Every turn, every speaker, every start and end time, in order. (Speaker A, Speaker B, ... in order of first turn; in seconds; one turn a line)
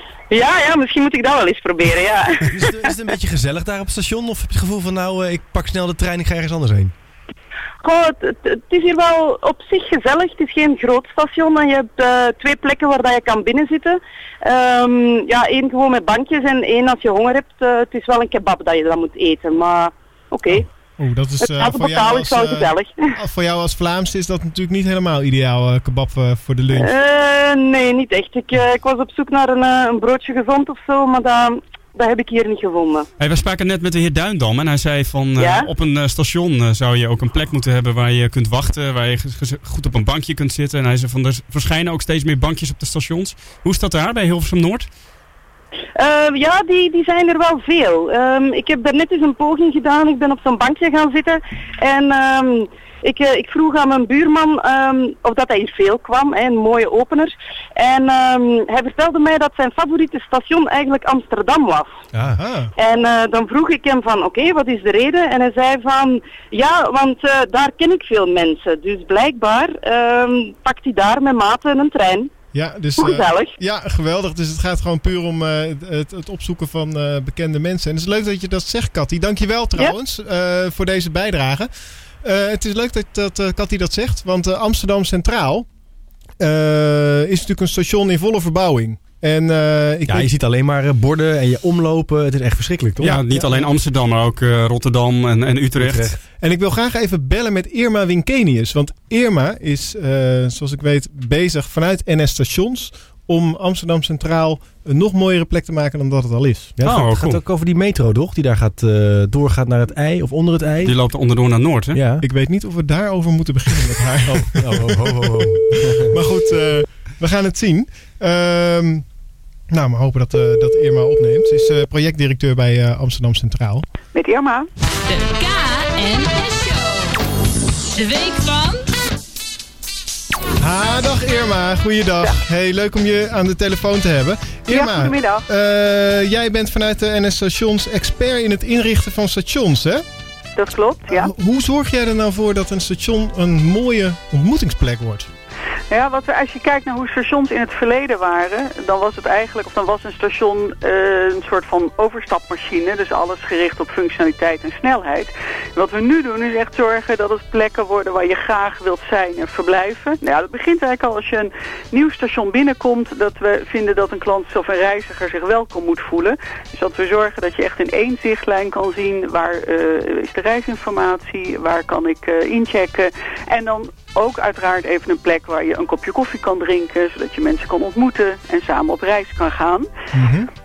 Speaker A: 0.3-2.5
Speaker B: 2.4-6.9
Speaker A: 7.8-20.7
Speaker C: 20.5-26.9
Speaker A: 21.4-23.1
Speaker A: 26.8-33.1
Speaker D: 33.2-44.9
Speaker A: 35.4-35.7
Speaker A: 46.0-62.0
Speaker B: 62.1-62.4
Speaker C: 62.3-62.7
Speaker A: 62.8-72.3
Speaker C: 72.5-81.7
Speaker A: 73.0-73.5
Speaker C: 82.2-85.7
Speaker C: 86.4-90.3
Speaker B: 90.1-93.7
Speaker D: 93.0-96.2
Speaker B: 95.8-96.2
Speaker C: 96.4-106.7
Speaker B: 106.8-111.0
Speaker D: 106.9-107.4
Speaker D: 110.8-112.0
Speaker B: 111.9-112.2
Speaker C: 112.2-119.0
Speaker B: 114.3-116.1
Speaker C: 119.7-123.9
Speaker E: 124.1-124.7
Speaker F: 125.1-127.2
Speaker F: 128.0-128.8
Speaker C: 130.6-140.1
Speaker E: 134.7-135.4
Speaker E: 140.6-141.3
Speaker C: 141.1-145.3
Speaker E: 145.9-179.9
Speaker C: 180.2-180.5